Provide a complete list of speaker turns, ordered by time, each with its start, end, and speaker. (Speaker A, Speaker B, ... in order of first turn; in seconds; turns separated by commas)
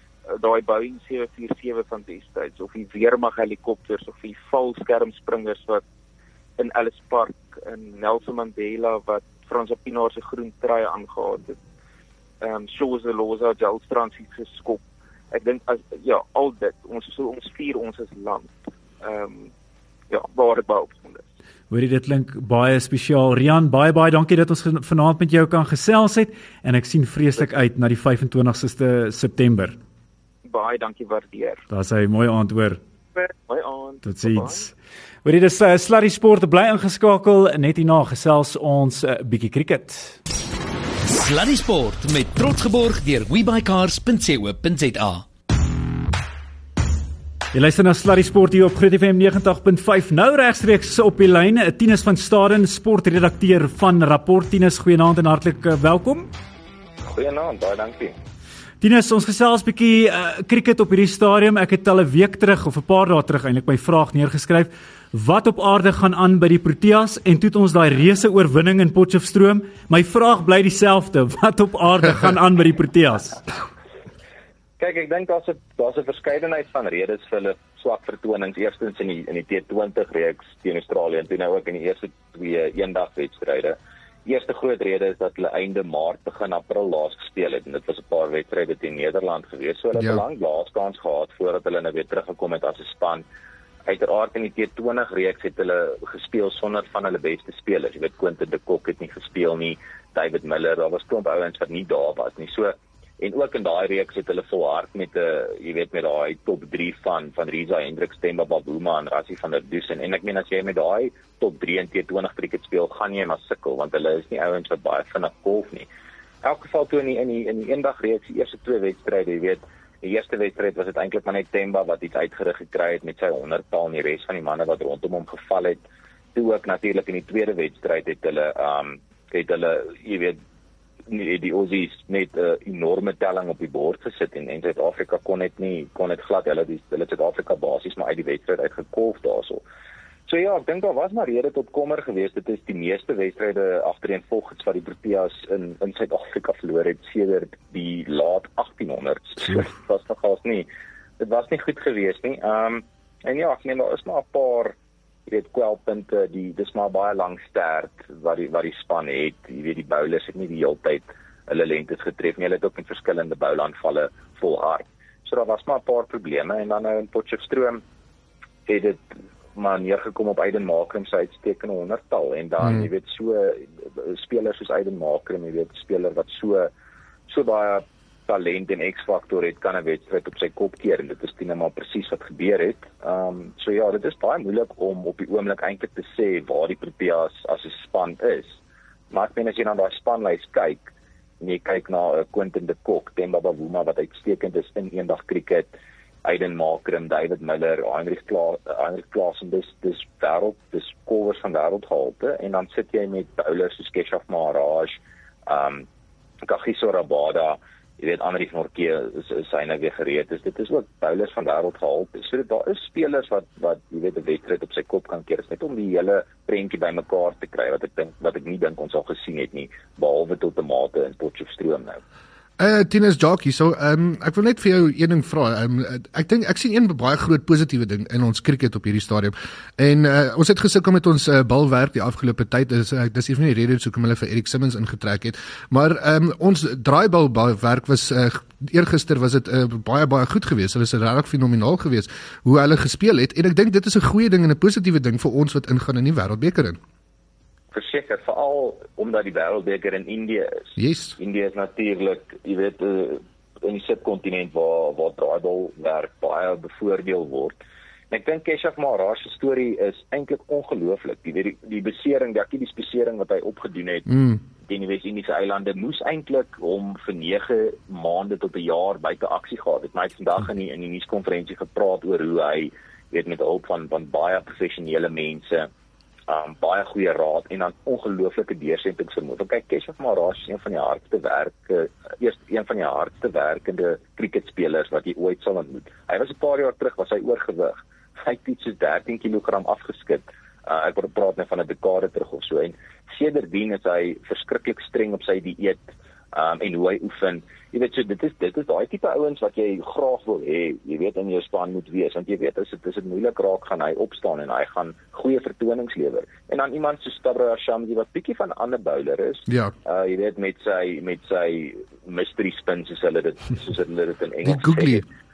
Speaker A: 0.3-5.8, Speaker A: 6.6-11.6, Speaker A: 12.4-19.5, Speaker A: 20.1-21.3, Speaker B: 21.7-29.8, Speaker A: 30.4-31.6, Speaker B: 31.7-32.8, Speaker A: 33.1-34.7, Speaker B: 34.0-34.7, Speaker B: 35.2-40.2, Speaker C: 41.0-45.2, Speaker B: 47.5-56.3, Speaker D: 57.0-58.2, Speaker B: 58.8-73.4, Speaker D: 74.8-93.2, Speaker E: 90.0-90.2, Speaker D: 93.8-115.9, Speaker D: 116.4-125.8, Speaker D: 126.3-130.4, Speaker D: 131.1-139.6, Speaker D: 140.3-154.8, Speaker D: 155.3-167.8, Speaker D: 168.7-176.7, Speaker D: 177.3-188.6, Speaker D: 189.1-205.9, Speaker D: 206.4-222.0, Speaker E: 222.6-246.8, Speaker D: 247.7-257.6, Speaker E: 250.8-251.2, Speaker D: 258.1-275.7, Speaker E: 264.1-264.4, Speaker D: 276.3-315.1, Speaker E: 309.5-309.7, Speaker E: 314.4-315.0